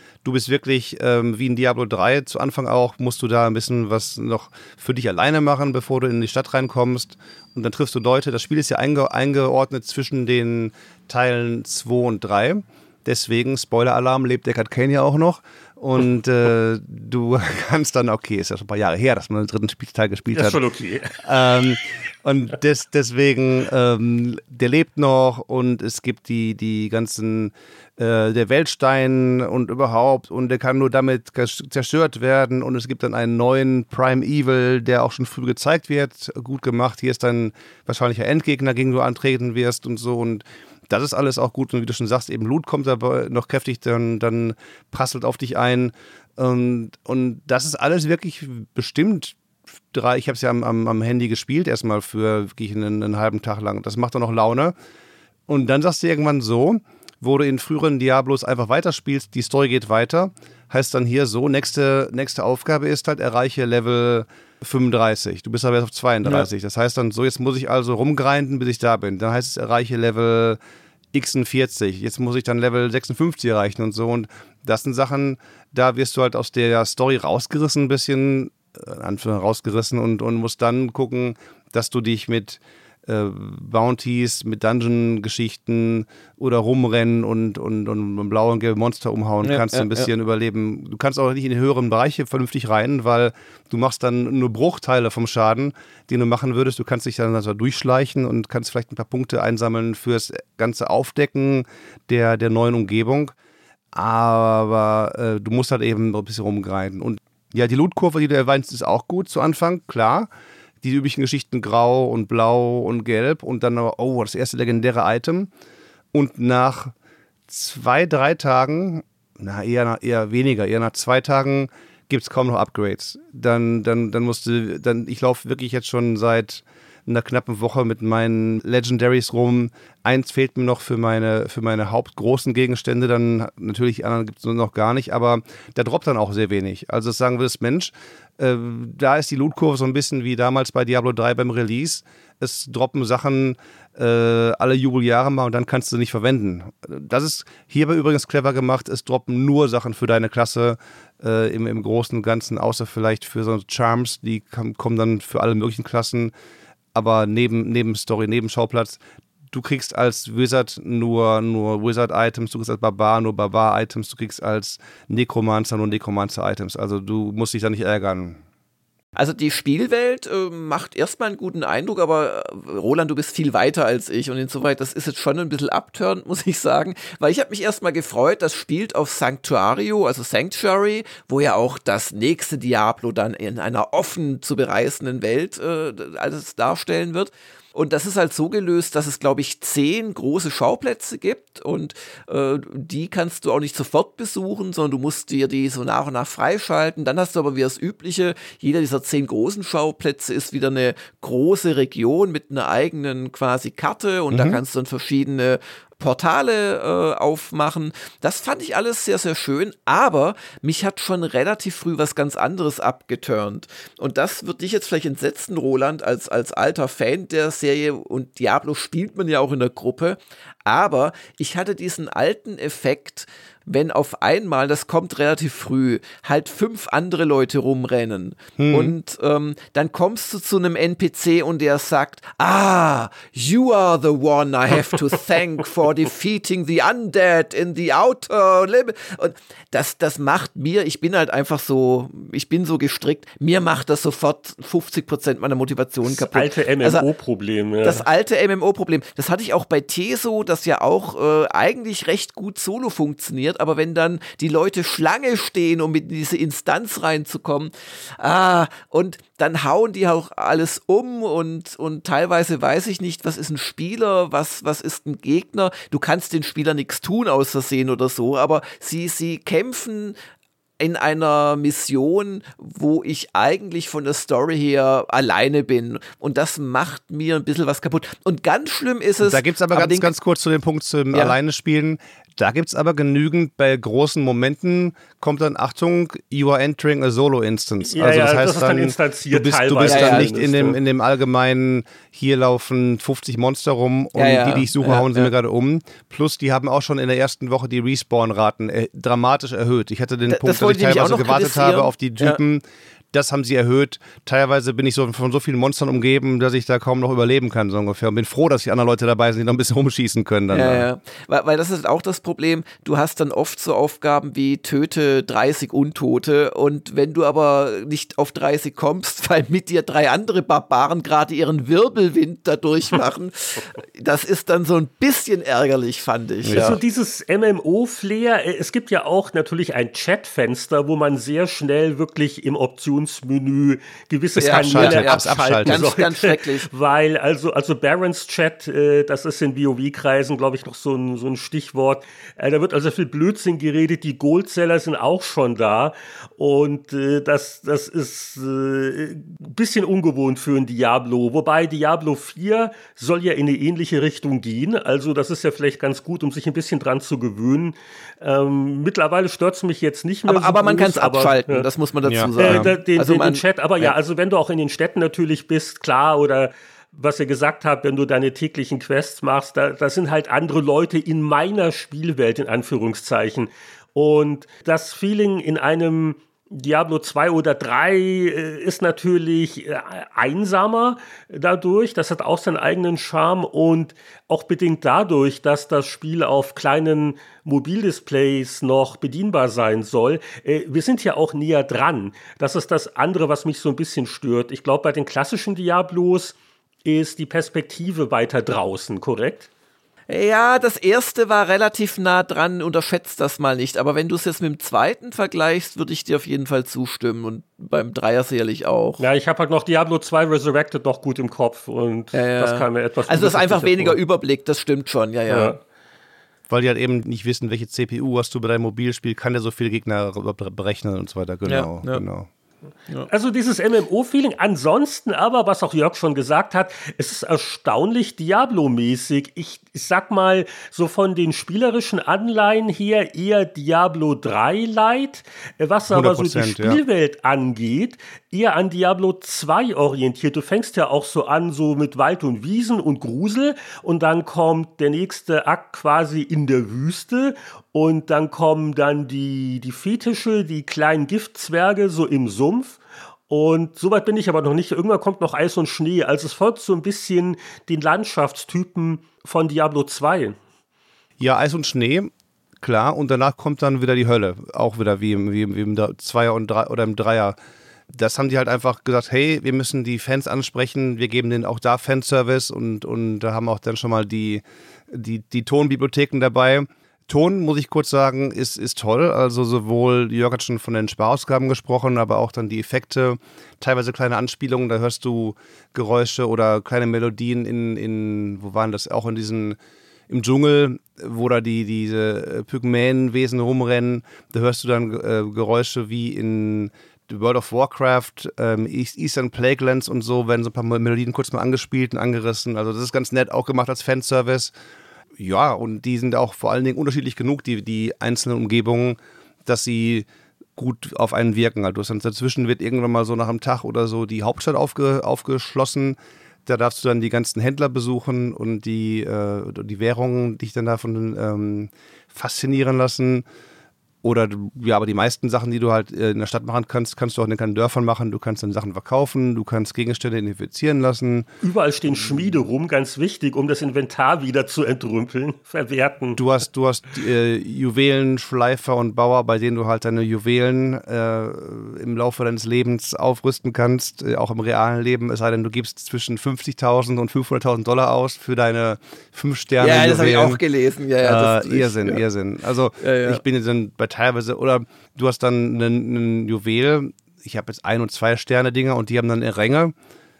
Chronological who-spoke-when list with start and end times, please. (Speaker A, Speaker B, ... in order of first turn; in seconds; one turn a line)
Speaker A: 0.2-20.6
Speaker B: 20.3-21.4
Speaker A: 21.2-49.4
Speaker A: 49.9-54.7
Speaker A: 55.5-70.6
Speaker A: 71.1-103.3
Speaker C: 89.4-90.1
Speaker A: 103.9-110.3
Speaker A: 110.8-115.5
Speaker A: 116.1-116.9
Speaker A: 117.5-156.3
Speaker A: 156.9-168.4
Speaker C: 169.2-247.1
Speaker A: 204.3-204.6
Speaker A: 228.6-228.9
Speaker B: 246.1-248.1
Speaker C: 247.8-270.1
Speaker C: 270.8-280.1
Speaker A: 279.2-310.9
Speaker B: 287.9-290.8
Speaker C: 289.9-290.3
Speaker C: 294.1-295.3
Speaker C: 300.3-302.4
Speaker C: 310.5-326.8
Speaker A: 326.4-326.8
Speaker B: 326.5-361.7
Speaker A: 334.4-335.8
Speaker C: 334.4-336.7
Speaker C: 360.3-363.9
Speaker A: 362.1-362.7
Speaker B: 362.4-399.5
Speaker C: 400.1-409.0
Speaker B: 409.0-414.0
Speaker C: 412.1-415.6
Speaker B: 415.3-415.6
Speaker A: 416.5-422.3
Speaker C: 421.4-422.0
Speaker B: 423.1-460.4
Speaker A: 435.9-436.8
Speaker A: 461.2-462.1
Speaker A: 462.6-467.4
Speaker A: 467.9-489.6
Speaker A: 490.1-504.5
Speaker A: 505.2-523.2
Speaker A: 524.0-531.3
Speaker B: 531.4-536.2
Speaker A: 536.2-550.4
Speaker C: 549.6-552.0
Speaker A: 551.0-559.7
Speaker C: 552.8-553.2